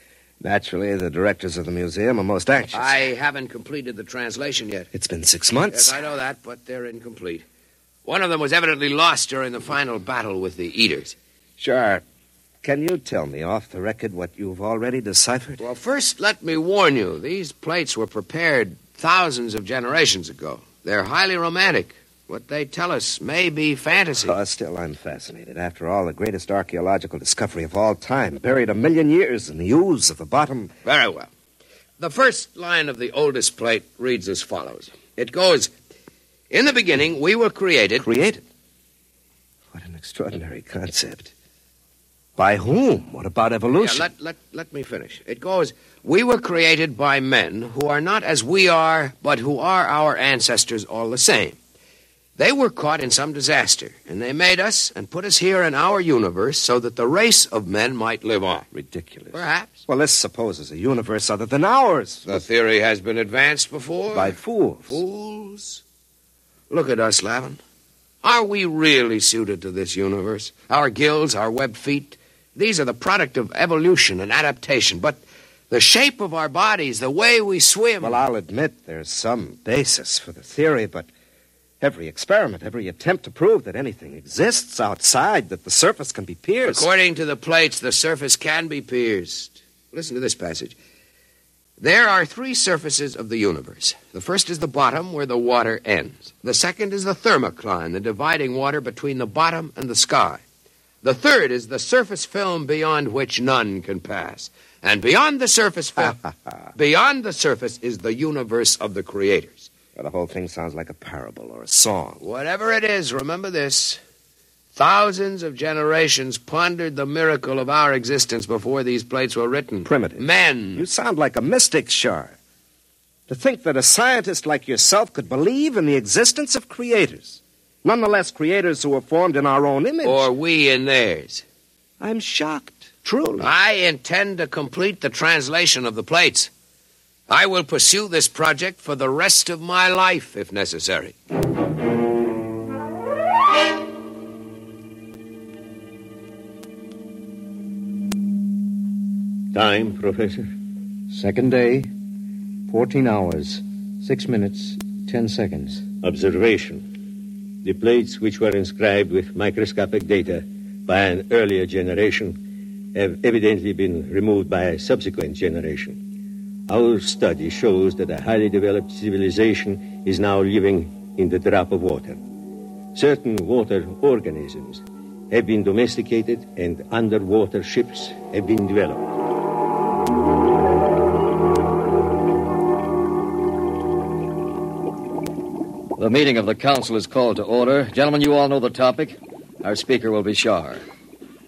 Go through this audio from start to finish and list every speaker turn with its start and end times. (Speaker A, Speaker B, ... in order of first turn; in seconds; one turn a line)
Speaker A: 0.4-3.0
Speaker B: 2.7-4.9
Speaker A: 4.9-6.0
Speaker B: 5.7-7.4
Speaker B: 8.0-11.2
Speaker A: 11.6-12.0
Speaker A: 12.6-15.6
Speaker B: 15.6-24.4
Speaker A: 24.1-30.7
Speaker B: 30.9-31.3
Speaker B: 32.0-35.7
Speaker B: 36.5-38.0
Speaker A: 38.0-38.4
Speaker A: 39.7-41.3
Speaker A: 42.4-44.1
Speaker B: 43.8-51.5
Speaker B: 52.4-58.7
Speaker A: 58.7-62.4
Speaker B: 59.3-59.8
Speaker B: 62.2-64.3
Speaker A: 64.1-65.0
Speaker B: 64.9-65.8
Speaker B: 66.7-67.6
Speaker B: 68.2-78.2
Speaker A: 78.0-81.1
Speaker A: 81.8-86.9
Speaker B: 86.6-90.8
Speaker B: 91.8-100.4
Speaker B: 101.0-106.2
Speaker B: 106.8-109.7
Speaker A: 110.0-112.2
Speaker B: 112.2-114.0
Speaker B: 114.8-120.8
Speaker A: 119.8-122.3
Speaker A: 123.3-130.3
Speaker B: 130.0-131.4
Speaker A: 132.0-133.5
Speaker B: 133.4-136.5
Speaker B: 137.3-141.1
Speaker C: 149.5-150.5
Speaker D: 151.1-151.9
Speaker D: 152.7-155.8
Speaker C: 156.0-156.9
Speaker C: 157.6-162.4
Speaker C: 162.9-166.0
Speaker C: 166.7-172.2
Speaker C: 172.9-179.1
Speaker E: 186.0-190.8